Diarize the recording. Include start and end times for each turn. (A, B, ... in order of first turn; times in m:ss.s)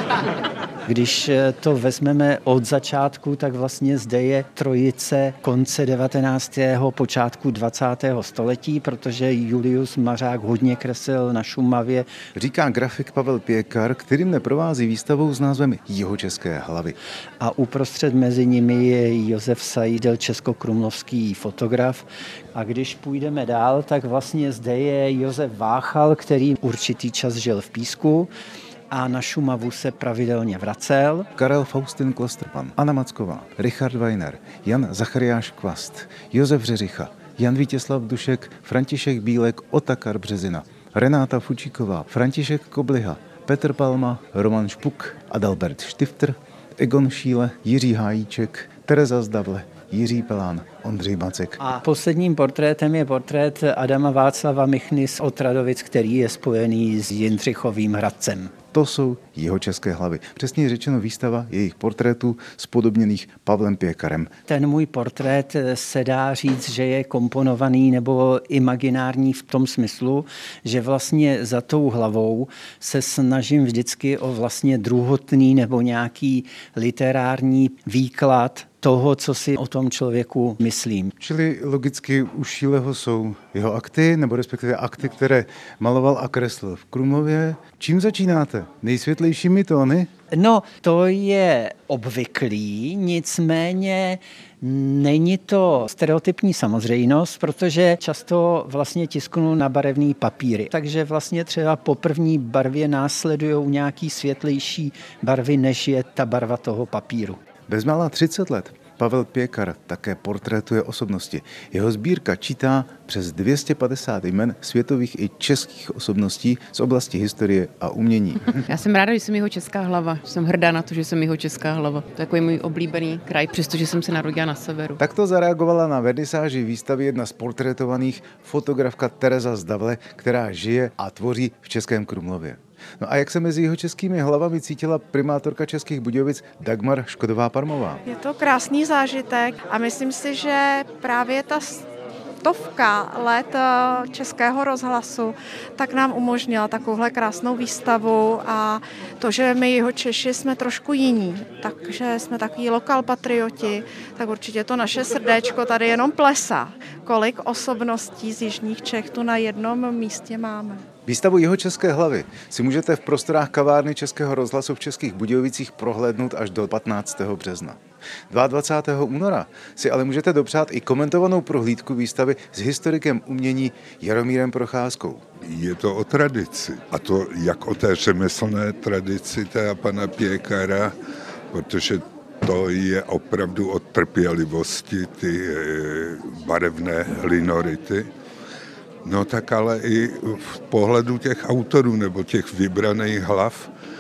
0:00.9-0:12.1 A
0:12.4-0:17.0 B
0:17.4-0:28.3 A
0:28.9-0:31.3 A
0:31.4-0:51.6 B
0:51.6-0:58.5 A
0:58.7-1:04.3 B
1:04.5-1:21.1 A
1:21.2-1:30.1 B
1:30.3-1:47.4 A
1:47.7-1:58.6 B
1:58.7-2:05.0 C
2:05.0-2:18.0 B
2:18.1-2:21.8 D
2:22.4-2:40.8 D
2:41.1-2:55.2 B
2:55.4-3:00.9 E
3:01.5-3:08.1 E
3:09.0-3:13.7 E